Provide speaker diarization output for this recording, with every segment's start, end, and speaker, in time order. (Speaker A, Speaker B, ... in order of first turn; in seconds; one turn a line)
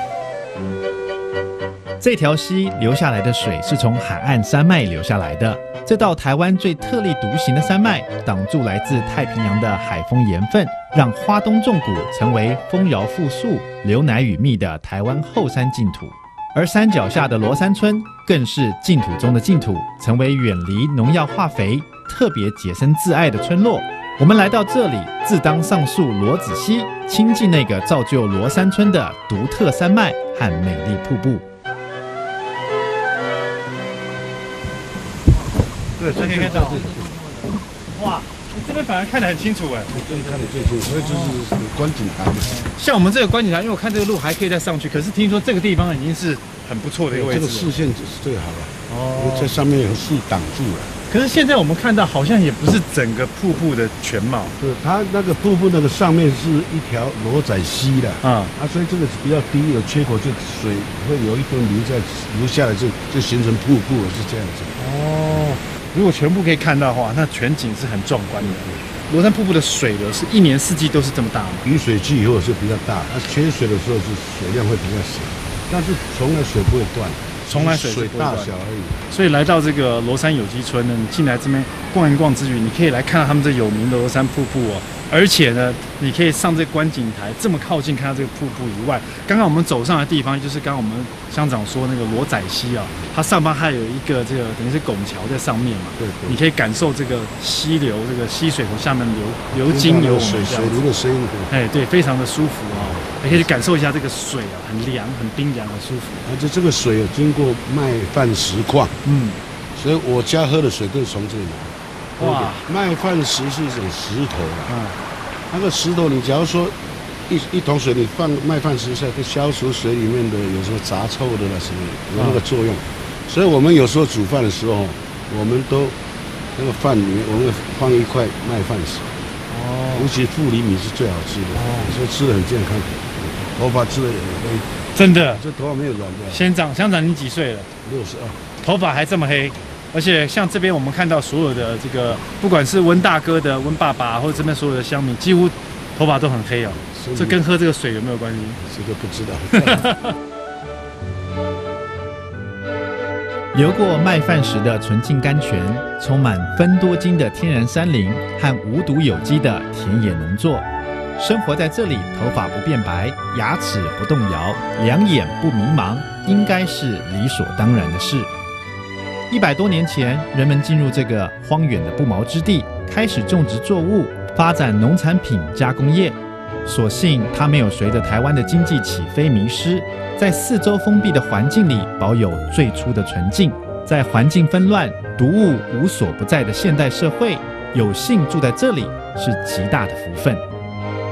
Speaker A: 2.0-31.4
Speaker B: 36.0-37.5
Speaker C: 36.1-37.0
Speaker C: 37.9-41.4
Speaker B: 39.9-42.7
Speaker C: 42.5-47.7
Speaker B: 47.1-50.9
Speaker C: 48.9-49.5
Speaker C: 51.1-54.5
Speaker B: 54.6-64.7
Speaker C: 58.2-58.5
Speaker C: 64.8-71.6
Speaker B: 68.4-68.9
Speaker B: 71.6-79.0
Speaker C: 77.4-78.5
Speaker C: 79.1-100.8
Speaker B: 96.0-96.4
Speaker B: 99.6-101.5
Speaker C: 101.5-106.2
Speaker B: 102.9-103.5
Speaker B: 106.2-109.0
Speaker C: 109.0-109.4
Speaker B: 109.8-114.8
Speaker C: 112.2-112.7
Speaker C: 114.7-115.0
Speaker B: 115.5-116.8
Speaker B: 117.3-126.0
Speaker C: 122.1-122.4
Speaker B: 126.5-129.1
Speaker C: 129.5-130.1
Speaker B: 129.9-136.4
Speaker C: 131.5-131.9
Speaker C: 134.9-135.4
Speaker C: 136.3-137.7
Speaker B: 137.8-138.6
Speaker C: 138.6-148.6
Speaker B: 146.9-147.4
Speaker B: 148.6-149.9
Speaker C: 149.5-150.2
Speaker A: 153.5-160.7
Speaker A: 161.2-168.3
Speaker A: 169.3-190.4